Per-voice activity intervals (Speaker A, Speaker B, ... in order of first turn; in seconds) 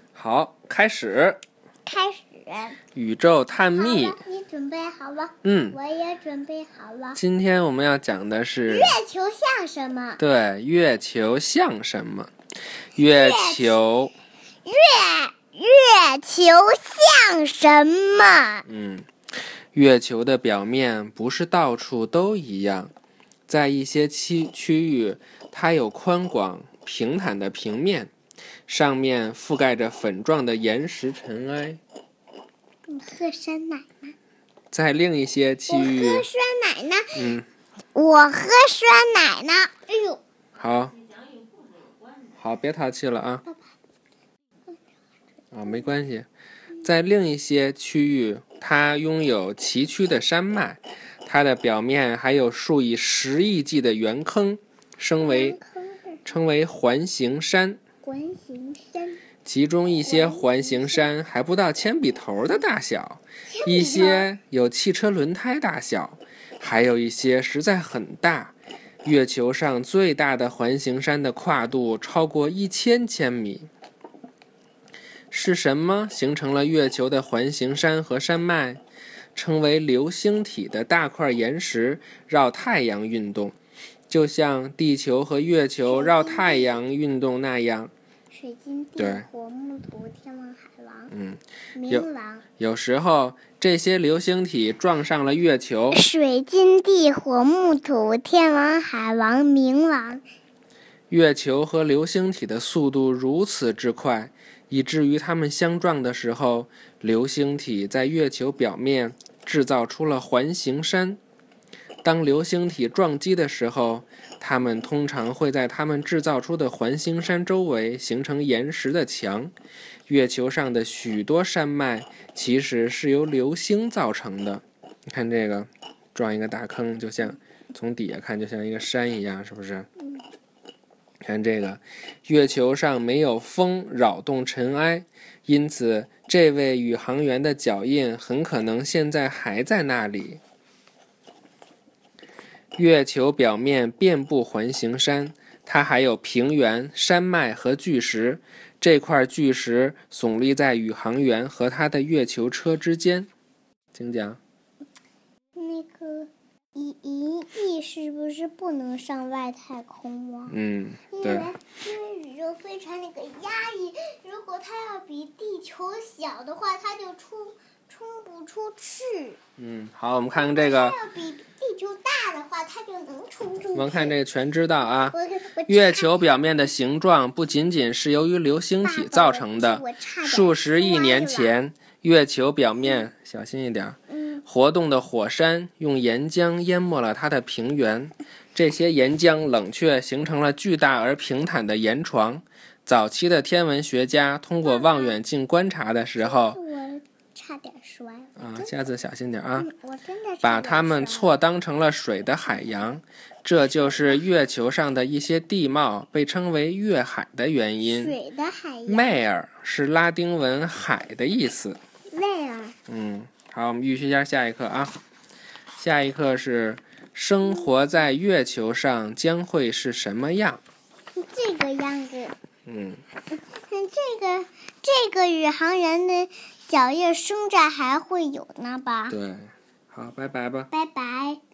Speaker A: 0.1-1.4, 3.0-4.2, 5.4-5.8, 7.2-9.0, 10.2-12.3, 13.0-14.2, 18.7-19.1, 19.7-22.9, 23.5-28.1, 28.7-31.8, 34.7-36.3, 37.1-37.5, 40.6-41.0, 42.3-43.4, 45.5-46.3, 46.8-55.6, 56.2-57.8, 59.5-73.7, 75.3-78.8, 79.3-83.5, 84.1-87.9, 89.0-89.3, 91.1-92.1, 92.6-96.0, 101.1-111.2, 112.0-119.5, 120.1-129.9, 131.2-140.4, 142.8-153.3, 153.9-154.4, 160.5-161.5, 169.6-171.0, 173.8-175.2, 175.7-196.6, 198.4-199.7, 200.4-208.2, 208.9-211.8, 212.9-215.0, 215.8-220.6, 222.7-223.0, 229.1-230.7
Speaker B: 1.9-2.8, 3.8-7.2, 8.7-10.2, 13.0-13.8, 14.7-18.7, 32.9-34.1, 35.7-37.3, 38.0-40.2, 55.2-56.2, 58.0-59.2, 60.0-61.1, 63.5-64.3, 85.8-86.7, 88.3-91.1, 91.8-92.5, 95.9-100.2, 155.6-160.6, 161.1-169.4, 170.3-174.1, 175.1-176.2, 178.8-181.6, 184.1-184.4, 194.6-195.2, 196.2-198.7, 199.6-201.3, 207.8-209.2, 212.1-212.8, 221.2-222.3, 223.3-229.2, 230.7-231.4